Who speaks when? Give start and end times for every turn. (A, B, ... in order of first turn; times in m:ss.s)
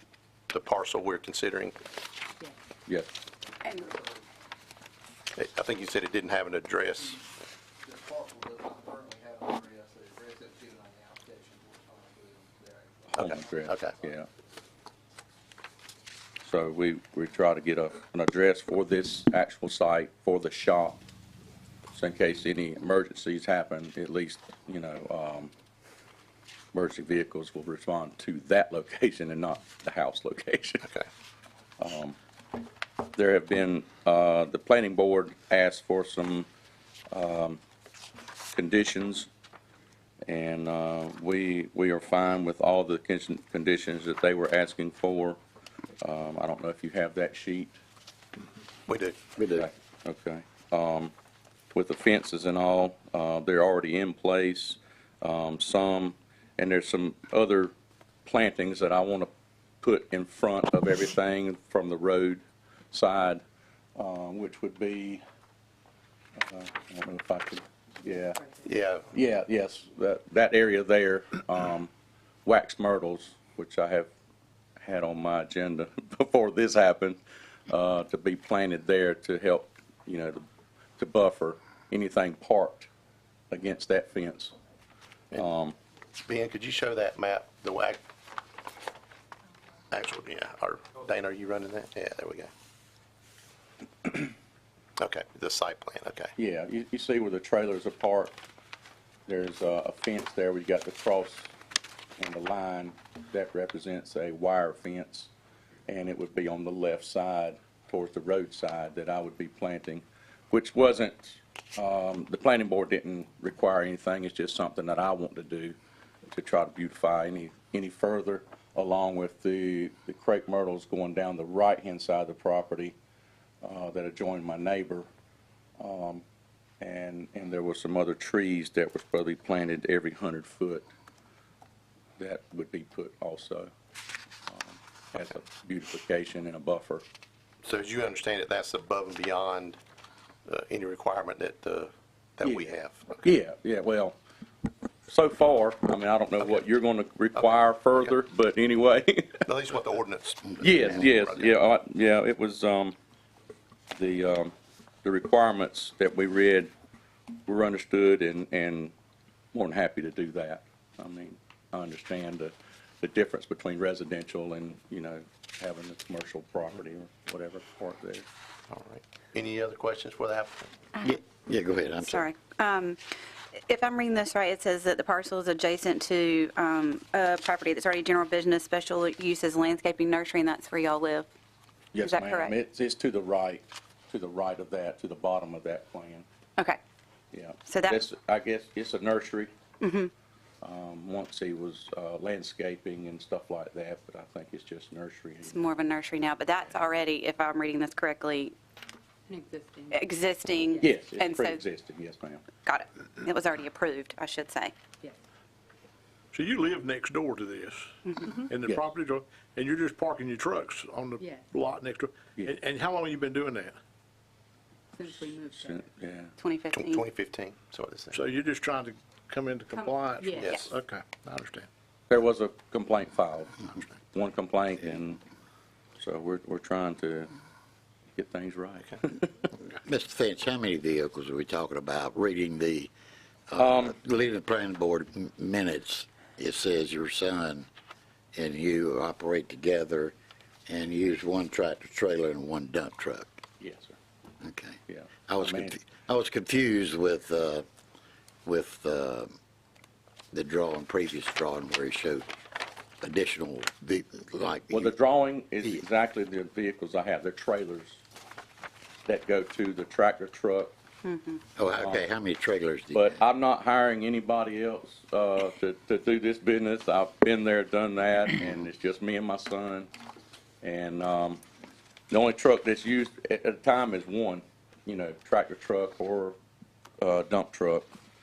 0:00.5-0:01.8 A
0:03.7-0:04.2 B
0:05.3-0:07.2 A
0:07.8-0:13.4 B
0:13.1-0:14.0 A
0:13.2-0:14.3 C
0:16.4-0:21.0 C
0:21.9-0:25.5 C
0:26.7-0:30.9 C
0:31.8-0:32.2 C
0:33.1-0:36.5 C
0:37.1-0:37.6 C
0:38.5-0:39.3 C
0:40.2-0:45.4 C
0:46.0-0:47.8 C
0:48.9-0:49.2 A
0:49.4-0:49.7 D
0:49.6-0:51.1 C
0:51.7-0:57.7 C
0:58.2-0:59.3 C
0:59.8-1:03.4 C
1:04.0-1:05.2 C
1:06.4-1:08.4 C
1:08.6-1:09.1 A
1:09.1-1:11.9 C
1:12.4-1:14.1 C
1:14.8-1:20.5 C
1:21.0-1:22.9 C
1:23.5-1:24.5 C
1:25.4-1:25.8 C
1:26.2-1:28.0 A
1:29.9-1:32.5 A
1:35.0-1:36.3 A
1:36.4-1:38.4 C
1:39.3-1:41.5 C
1:42.2-1:45.3 C
1:45.9-1:55.8 C
1:56.3-2:03.0 C
2:03.6-2:05.1 C
2:05.8-2:06.2 C
2:06.8-2:10.9 C
2:12.2-2:13.7 C
2:14.5-2:17.0 C
2:17.6-2:19.8 A
2:20.5-2:23.3 A
2:23.2-2:24.2 C
2:25.1-2:29.5 C
2:27.4-2:28.1 A
2:29.4-2:31.6 A
2:30.6-2:33.0 C
2:33.9-2:36.7 C
2:37.4-2:38.9 C
2:39.5-2:48.2 C
2:48.7-2:50.7 A
2:51.0-2:52.3 D
2:52.0-2:53.0 E
2:53.6-3:01.3 E
3:01.9-3:06.2 C
3:02.0-3:02.6 E
3:07.3-3:09.5 C
3:07.7-3:08.0 E
3:09.8-3:10.1 E
3:10.6-3:15.7 C
3:15.4-3:18.6 E
3:19.3-3:21.0 F
3:19.9-3:21.6 E
3:20.8-3:22.5 C
3:22.6-3:24.8 E
3:26.3-3:33.8 G
3:31.2-3:31.5 F
3:34.9-3:35.8 F
3:35.5-3:36.3 C
3:36.4-3:37.0 E
3:36.7-3:38.2 A
3:38.1-3:41.7 G
3:40.2-3:40.6 F
3:40.4-3:40.7 A
3:42.1-3:45.2 C
3:46.0-3:47.3 C
3:48.2-3:49.5 C
3:49.8-3:52.9 D
3:53.5-3:57.7 D
3:53.6-3:54.0 C
3:58.3-4:00.2 D
4:00.7-4:03.4 D
4:03.6-4:04.0 C
4:04.4-4:07.6 D
4:04.9-4:05.8 C
4:08.4-4:09.3 D
4:10.3-4:12.3 D
4:13.0-4:14.9 D
4:14.7-4:18.0 C
4:19.0-4:20.7 C
4:21.0-4:21.4 E
4:21.6-4:23.2 D
4:21.8-4:22.0 C
4:22.9-4:29.9 C
4:30.6-4:31.4 C
4:32.1-4:36.4 C
4:37.0-4:37.8 C